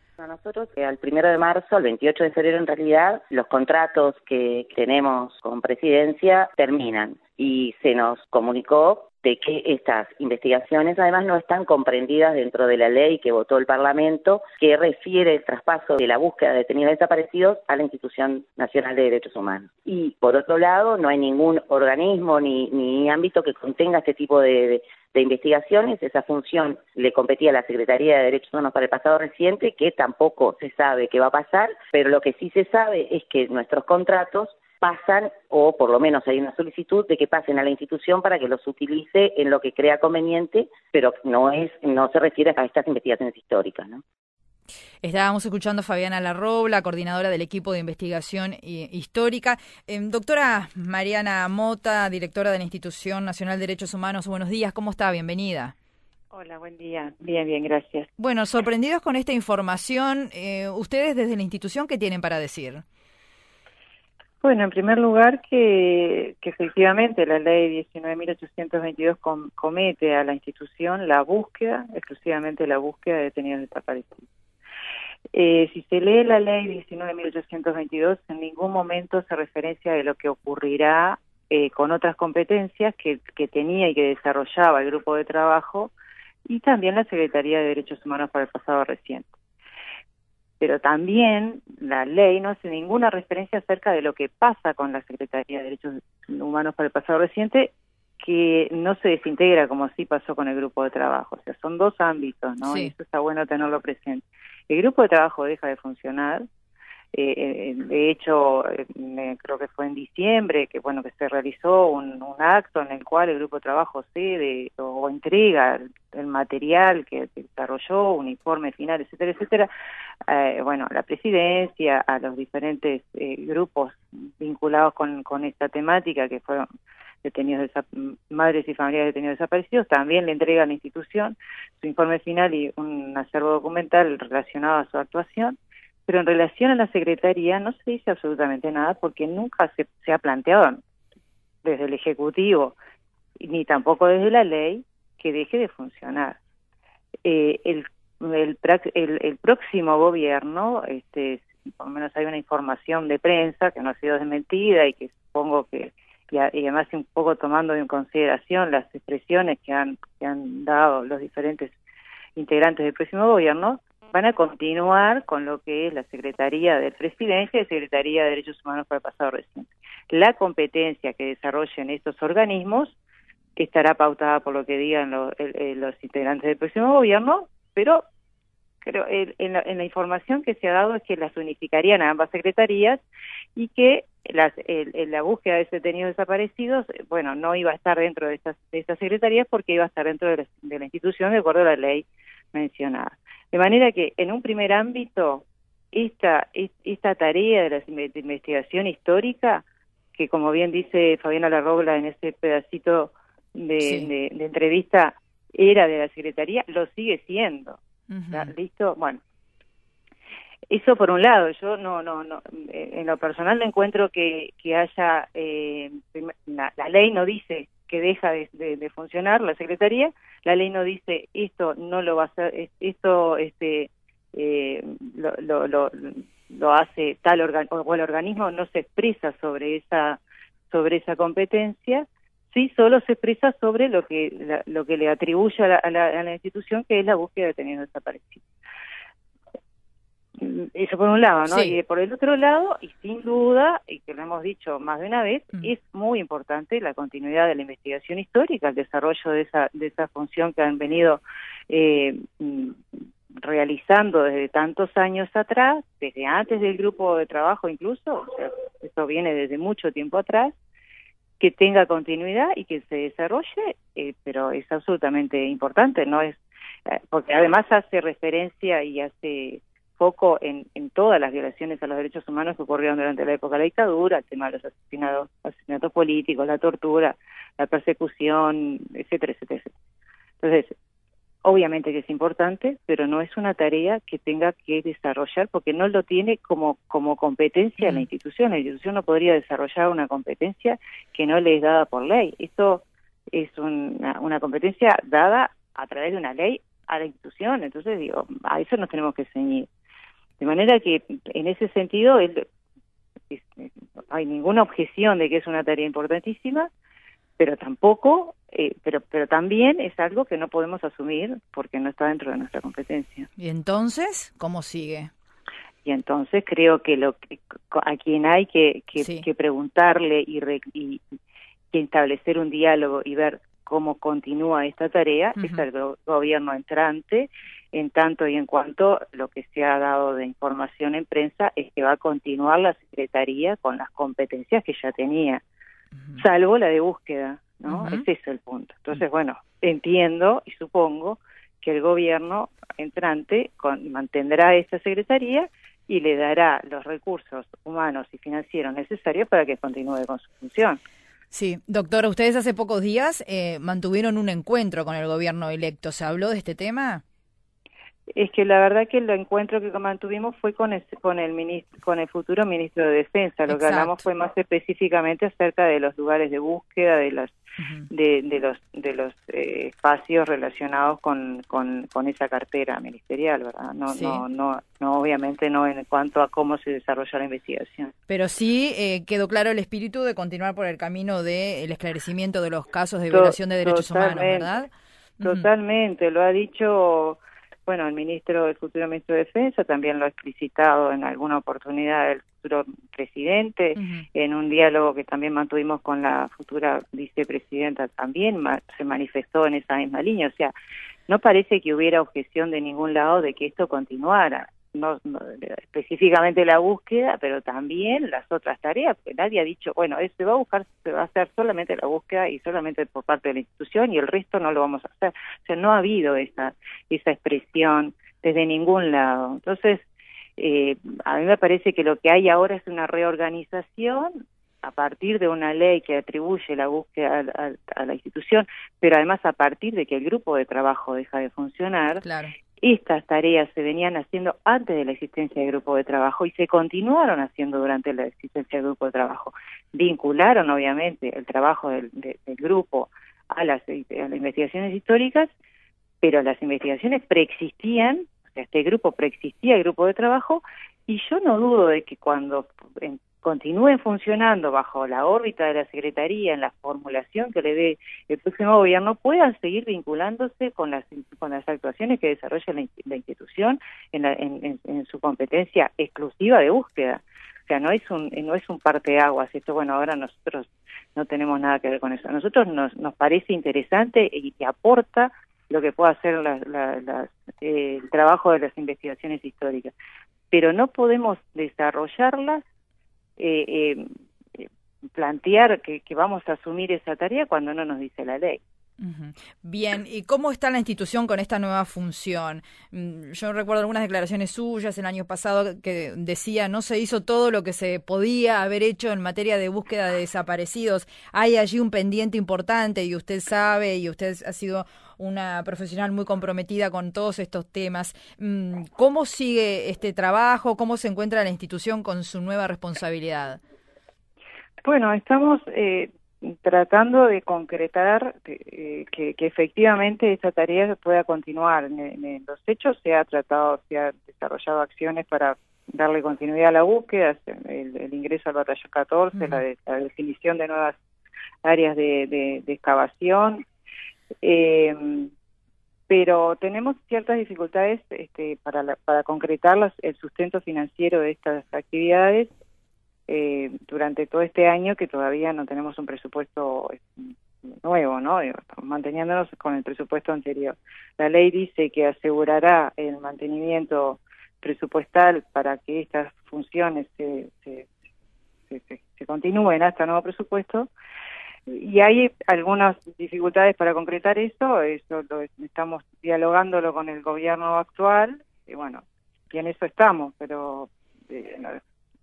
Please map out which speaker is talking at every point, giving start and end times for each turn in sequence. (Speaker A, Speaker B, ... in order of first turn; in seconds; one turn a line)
Speaker A: 0.2-44.0
Speaker B: 45.0-55.7
Speaker C: 56.3-58.1
Speaker B: 58.2-62.8
Speaker C: 64.4-74.3
Speaker C: 75.3-85.9
Speaker C: 86.5-89.3
Speaker C: 90.6-106.5
Speaker B: 102.6-102.9
Speaker C: 107.1-119.7
Speaker C: 120.3-126.7
Speaker C: 127.2-135.6
Speaker C: 136.1-140.8
Speaker C: 141.6-142.8
Speaker C: 143.4-146.4
Speaker C: 147.2-161.8
Speaker C: 162.4-173.0
Speaker C: 173.6-178.0
Speaker C: 178.8-183.0
Speaker C: 183.6-199.6
Speaker C: 200.2-207.8
Speaker B: 203.8-204.1
Speaker B: 208.1-208.5
Speaker C: 208.3-209.2
Speaker C: 210.7-230.2
Speaker C: 230.7-238.4
Speaker C: 240.4-252.8
Speaker B: 241.5-241.8
Speaker C: 253.4-260.5
Speaker C: 261.4-279.7
Speaker C: 280.4-280.7
Speaker C: 281.4-299.7
Speaker B: 287.8-288.1
Speaker C: 300.4-302.4
Speaker C: 303.3-306.7
Speaker C: 307.4-313.3
Speaker B: 313.4-315.1
Speaker C: 315.9-321.0
Speaker B: 319.0-319.3
Speaker C: 321.7-335.4
Speaker B: 325.4-325.6
Speaker C: 336.2-350.8
Speaker B: 337.7-338.1
Speaker B: 351.3-357.0
Speaker C: 358.1-367.4
Speaker B: 363.5-364.0
Speaker B: 367.6-367.9
Speaker C: 367.9-377.9
Speaker B: 373.9-374.2
Speaker B: 378.1-385.5
Speaker C: 383.1-384.5
Speaker C: 385.2-400.5
Speaker B: 393.8-394.1
Speaker C: 401.1-419.8
Speaker C: 420.4-432.0
Speaker B: 432.0-432.3
Speaker C: 432.6-445.3
Speaker C: 446.0-479.7
Speaker C: 480.3-482.4
Speaker C: 483.2-483.9
Speaker C: 484.4-488.4
Speaker B: 488.8-513.4
Speaker C: 514.6-530.8
Speaker B: 529.1-529.4
Speaker C: 531.4-533.5
Speaker C: 534.2-535.1
Speaker C: 535.9-542.3
Speaker C: 543.1-557.7
Speaker C: 558.5-560.7
Speaker C: 561.5-571.6